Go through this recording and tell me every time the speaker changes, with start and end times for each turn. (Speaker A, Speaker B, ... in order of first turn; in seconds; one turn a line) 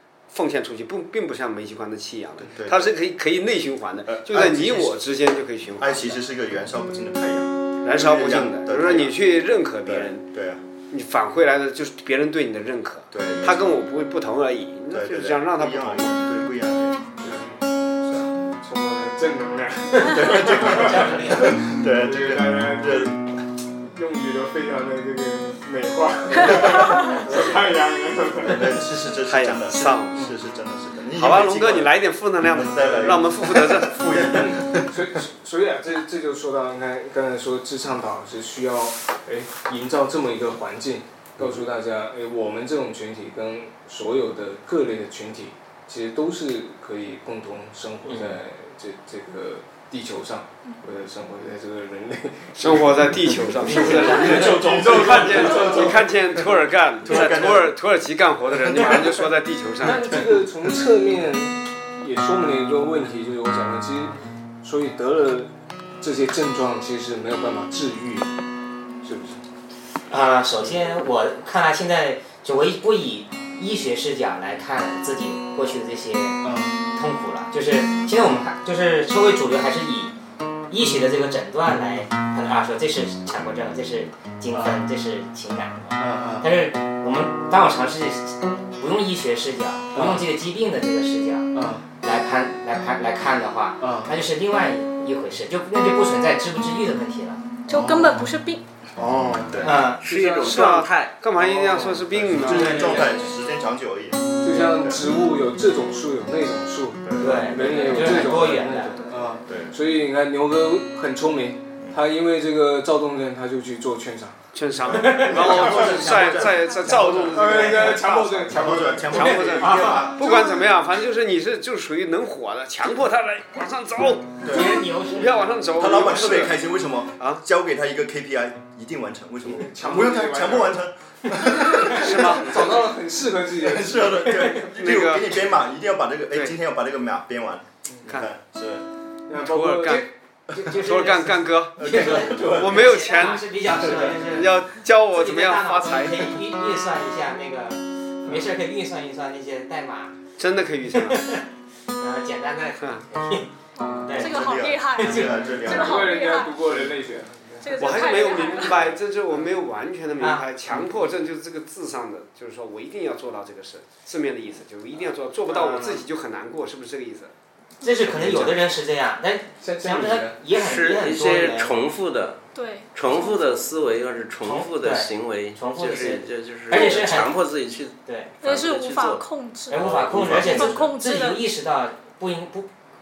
Speaker A: 0.3-6.2
Speaker B: 2.4-2.9
Speaker B: 4.1-5.0
Speaker B: 5.8-9.2
Speaker A: 7.8-10.3
Speaker B: 9.8-10.6
Speaker A: 10.9-16.1
Speaker B: 13.1-13.8
Speaker B: 14.9-17.1
Speaker C: 17.2-17.6
Speaker B: 18.0-18.3
Speaker C: 18.6-23.1
Speaker B: 20.0-23.4
Speaker D: 20.6-21.5
Speaker C: 23.8-28.8
Speaker B: 27.3-27.5
Speaker B: 28.4-35.2
Speaker A: 29.2-30.3
Speaker A: 31.1-34.5
Speaker C: 32.9-33.1
Speaker C: 34.8-56.4
Speaker D: 48.1-48.3
Speaker A: 52.6-60.3
Speaker B: 54.3-55.9
Speaker B: 57.0-57.8
Speaker B: 58.7-59.0
Speaker C: 59.8-68.3
Speaker C: 69.0-69.4
Speaker D: 70.1-80.1
Speaker C: 76.4-76.7
Speaker D: 80.7-97.5
Speaker C: 84.5-84.8
Speaker C: 86.0-86.5
Speaker C: 89.9-90.2
Speaker C: 91.5-91.8
Speaker C: 93.8-94.1
Speaker E: 97.7-98.6
Speaker C: 97.7-98.3
Speaker C: 99.0-100.5
Speaker B: 99.0-99.8
Speaker D: 99.6-100.0
Speaker F: 100.0-101.2
Speaker A: 100.2-103.1
Speaker C: 101.4-102.7
Speaker B: 101.8-105.1
Speaker D: 102.4-103.3
Speaker C: 104.4-114.4
Speaker B: 107.0-107.5
Speaker D: 107.2-109.0
Speaker E: 107.6-108.3
Speaker B: 109.5-109.7
Speaker A: 114.5-118.5
Speaker B: 114.8-120.4
Speaker D: 115.0-115.7
Speaker C: 117.3-120.1
Speaker A: 119.0-126.6
Speaker E: 120.2-120.7
Speaker B: 124.4-124.8
Speaker D: 124.5-125.8
Speaker B: 125.7-132.8
Speaker A: 127.2-127.4
Speaker C: 129.4-130.8
Speaker C: 131.6-134.6
Speaker A: 131.9-132.8
Speaker B: 133.5-138.9
Speaker A: 134.7-135.4
Speaker A: 138.0-138.3
Speaker C: 139.3-140.1
Speaker A: 139.3-140.1
Speaker D: 140.5-150.2
Speaker A: 140.7-146.4
Speaker B: 141.8-142.8
Speaker B: 143.8-144.1
Speaker A: 150.4-151.3
Speaker D: 150.9-151.4
Speaker D: 151.9-155.5
Speaker E: 153.7-156.7
Speaker B: 154.2-156.2
Speaker C: 155.2-157.9
Speaker E: 157.6-158.8
Speaker A: 157.8-167.3
Speaker D: 160.2-160.4
Speaker C: 160.7-161.0
Speaker D: 165.5-166.0
Speaker D: 167.8-171.7
Speaker C: 168.0-168.7
Speaker C: 169.6-170.4
Speaker F: 170.5-172.4
Speaker E: 172.5-173.7
Speaker F: 172.9-179.2
Speaker D: 174.4-177.3
Speaker E: 176.7-177.1
Speaker D: 178.0-178.3
Speaker E: 178.4-181.4
Speaker D: 179.7-182.7
Speaker B: 179.8-180.9